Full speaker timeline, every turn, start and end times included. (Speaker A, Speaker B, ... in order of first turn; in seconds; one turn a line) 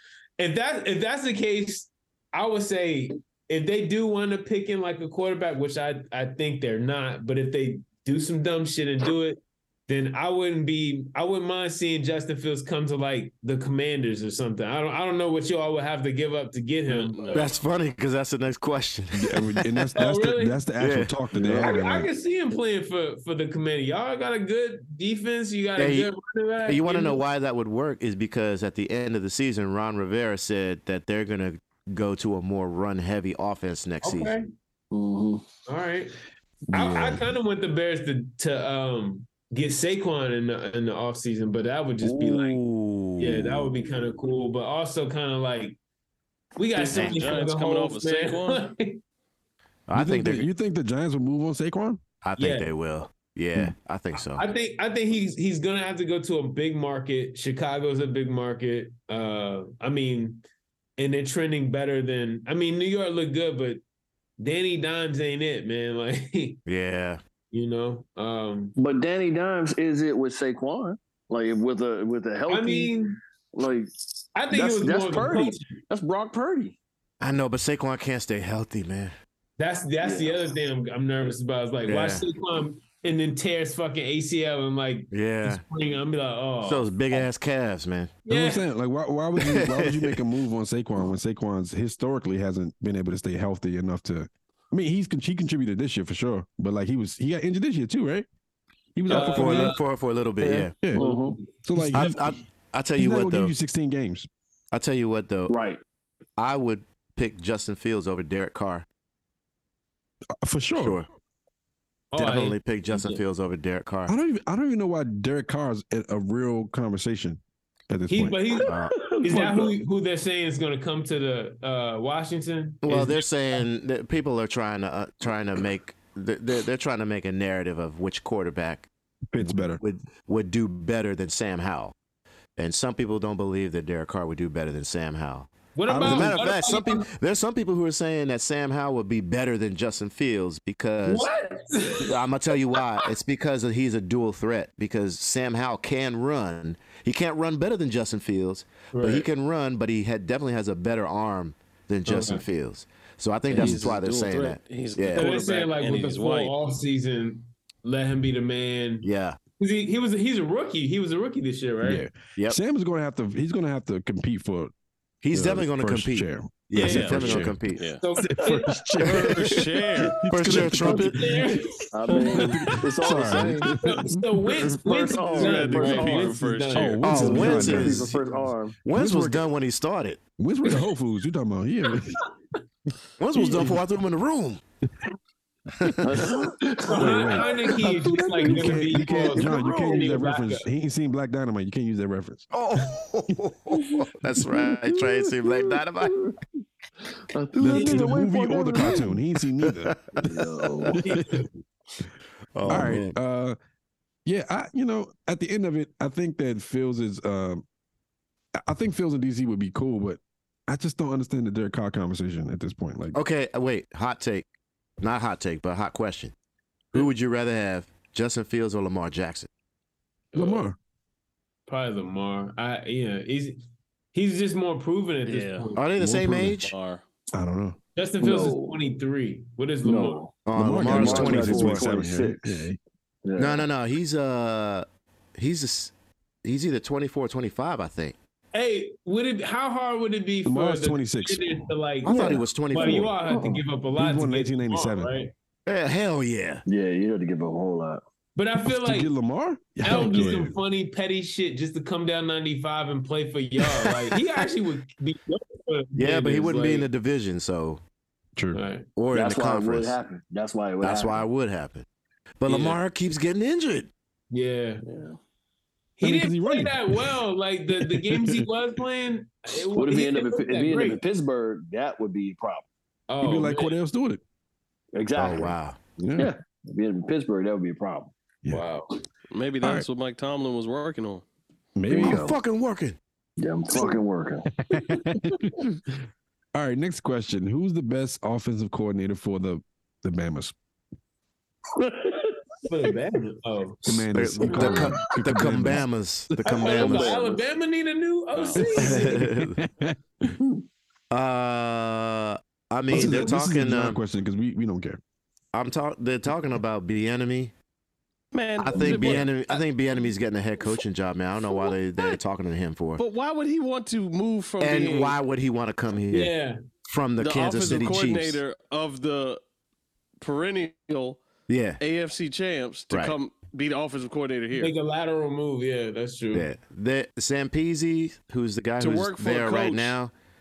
Speaker A: 0.4-17.5
Speaker B: 16.9-17.6
Speaker C: 17.3-19.9
Speaker D: 19.1-22.1
Speaker A: 19.9-20.7
Speaker C: 20.8-21.1
Speaker A: 21.4-27.2
Speaker C: 25.8-26.1
Speaker C: 26.6-34.3
Speaker A: 34.0-34.5
Speaker E: 34.9-35.4
Speaker A: 35.7-36.1
Speaker D: 36.7-37.2
Speaker A: 36.7-42.6
Speaker C: 42.0-43.7
Speaker A: 43.2-45.8
Speaker A: 46.6-49.0
Speaker B: 46.7-48.6
Speaker C: 46.9-47.2
Speaker C: 49.9-50.5
Speaker D: 49.9-52.0
Speaker C: 52.2-54.4
Speaker A: 52.4-52.7
Speaker A: 54.1-60.4
Speaker A: 61.0-63.8
Speaker A: 64.4-66.6
Speaker C: 66.7-67.2
Speaker A: 67.5-68.7
Speaker E: 68.8-72.9
Speaker A: 72.5-73.2
Speaker E: 73.5-73.9
Speaker A: 74.3-75.8
Speaker E: 74.5-76.8
Speaker C: 77.2-79.1
Speaker A: 79.6-87.2
Speaker E: 80.0-80.4
Speaker C: 81.8-82.2
Speaker C: 85.1-85.6
Speaker C: 86.6-88.2
Speaker A: 88.2-88.6
Speaker D: 88.3-98.3
Speaker C: 89.4-90.2
Speaker D: 98.9-99.8
Speaker A: 99.1-99.8
Speaker C: 99.1-100.8
Speaker E: 100.4-101.4
Speaker A: 101.0-102.2
Speaker D: 101.6-102.2
Speaker C: 101.9-103.5
Speaker D: 103.0-104.3
Speaker C: 104.7-105.5
Speaker E: 105.5-105.8
Speaker C: 106.4-108.8
Speaker D: 110.4-111.0
Speaker C: 110.8-111.1
Speaker A: 112.1-113.2
Speaker C: 112.2-114.2
Speaker D: 114.1-118.4
Speaker A: 118.1-123.3
Speaker E: 118.5-119.7
Speaker C: 118.7-119.1
Speaker C: 122.8-131.9
Speaker D: 129.3-129.8
Speaker C: 132.6-141.3
Speaker A: 135.7-137.1
Speaker D: 135.9-136.4
Speaker A: 141.0-143.1
Speaker C: 142.0-155.3
Speaker A: 148.9-149.3
Speaker A: 152.1-152.4
Speaker B: 153.5-156.6
Speaker A: 155.1-159.1
Speaker C: 159.0-159.4
Speaker A: 159.6-162.1
Speaker D: 161.8-164.7
Speaker C: 165.2-167.9
Speaker D: 165.3-167.6
Speaker B: 166.8-168.0
Speaker A: 166.8-167.1
Speaker A: 168.0-169.0
Speaker D: 168.2-169.4
Speaker B: 169.0-170.2
Speaker C: 169.1-169.5
Speaker A: 170.0-177.6
Speaker D: 170.0-171.6
Speaker C: 170.3-171.4
Speaker E: 171.9-173.8
Speaker D: 172.3-174.7
Speaker E: 174.8-176.4
Speaker B: 174.8-177.4
Speaker D: 176.7-178.2
Speaker C: 177.0-178.2
Speaker E: 177.1-178.8
Speaker C: 178.8-180.2
Speaker D: 178.9-179.5
Speaker D: 180.4-182.2
Speaker C: 183.2-184.6
Speaker D: 183.3-183.8
Speaker C: 185.8-186.2
Speaker E: 186.0-188.4
Speaker A: 186.8-190.7
Speaker D: 186.9-187.5
Speaker D: 188.4-192.5
Speaker C: 188.9-189.4
Speaker C: 192.5-196.2
Speaker E: 194.4-196.4
Speaker E: 197.2-199.1
Speaker D: 197.6-199.9
Speaker A: 197.7-198.1
Speaker C: 199.6-200.4
Speaker E: 200.2-201.0
Speaker D: 200.9-201.4
Speaker A: 201.0-201.5
Speaker C: 202.5-203.2
Speaker D: 202.7-203.6
Speaker D: 204.2-207.6
Speaker D: 208.6-213.2
Speaker C: 213.1-214.5
Speaker C: 215.0-216.3
Speaker C: 216.9-219.5
Speaker A: 220.3-220.6
Speaker D: 220.3-220.8
Speaker A: 221.7-223.6
Speaker A: 224.1-225.9
Speaker B: 225.2-225.7
Speaker C: 225.8-226.7
Speaker D: 225.9-226.6
Speaker B: 226.6-227.0
Speaker D: 227.3-227.8
Speaker A: 227.9-230.3
Speaker E: 228.2-228.8
Speaker E: 229.8-232.6
Speaker C: 230.4-231.8
Speaker D: 230.5-232.8
Speaker E: 233.2-233.7
Speaker C: 233.4-235.9
Speaker C: 236.4-238.2
Speaker A: 238.5-245.3
Speaker D: 240.4-241.7
Speaker C: 242.0-243.1
Speaker E: 242.1-243.6
Speaker D: 244.0-245.1
Speaker C: 245.7-246.6
Speaker E: 246.7-248.0
Speaker A: 248.3-249.1
Speaker D: 248.7-250.5
Speaker A: 249.8-256.9
Speaker C: 253.6-254.2
Speaker C: 255.9-257.8
Speaker A: 258.5-258.9
Speaker C: 258.9-259.9
Speaker E: 259.1-261.2
Speaker C: 260.8-261.9
Speaker C: 262.4-263.9
Speaker B: 262.4-262.7
Speaker A: 264.3-264.8
Speaker E: 264.8-265.2
Speaker A: 266.0-271.0
Speaker D: 266.0-267.2
Speaker D: 267.8-268.4
Speaker E: 269.7-272.7
Speaker A: 273.1-273.8
Speaker D: 273.2-274.2
Speaker E: 274.9-275.6
Speaker C: 275.1-275.8
Speaker D: 276.0-276.3
Speaker E: 276.2-278.1
Speaker A: 278.5-278.9
Speaker B: 279.3-281.2
Speaker D: 279.6-279.9
Speaker D: 281.7-282.3
Speaker E: 281.9-282.4
Speaker C: 281.9-283.0
Speaker E: 283.4-284.5
Speaker D: 284.6-285.8
Speaker D: 286.5-290.5
Speaker E: 291.8-292.4
Speaker A: 292.7-293.8
Speaker D: 293.8-296.6
Speaker C: 294.1-297.2
Speaker E: 294.5-295.0
Speaker A: 296.4-299.3
Speaker E: 296.6-297.4
Speaker B: 298.3-298.8
Speaker D: 298.6-300.3
Speaker C: 298.8-299.6
Speaker C: 301.1-304.0
Speaker D: 302.9-305.0
Speaker A: 302.9-303.3
Speaker C: 305.5-307.5
Speaker B: 308.3-309.6
Speaker C: 308.6-313.0
Speaker B: 311.4-312.2
Speaker B: 313.0-315.2
Speaker C: 314.6-316.3
Speaker A: 316.1-316.6
Speaker C: 316.9-318.4
Speaker B: 317.2-319.4
Speaker B: 320.2-321.2
Speaker C: 321.5-321.8
Speaker B: 321.8-324.7
Speaker C: 322.9-323.2
Speaker A: 324.5-326.5
Speaker C: 326.3-330.1
Speaker B: 328.8-329.9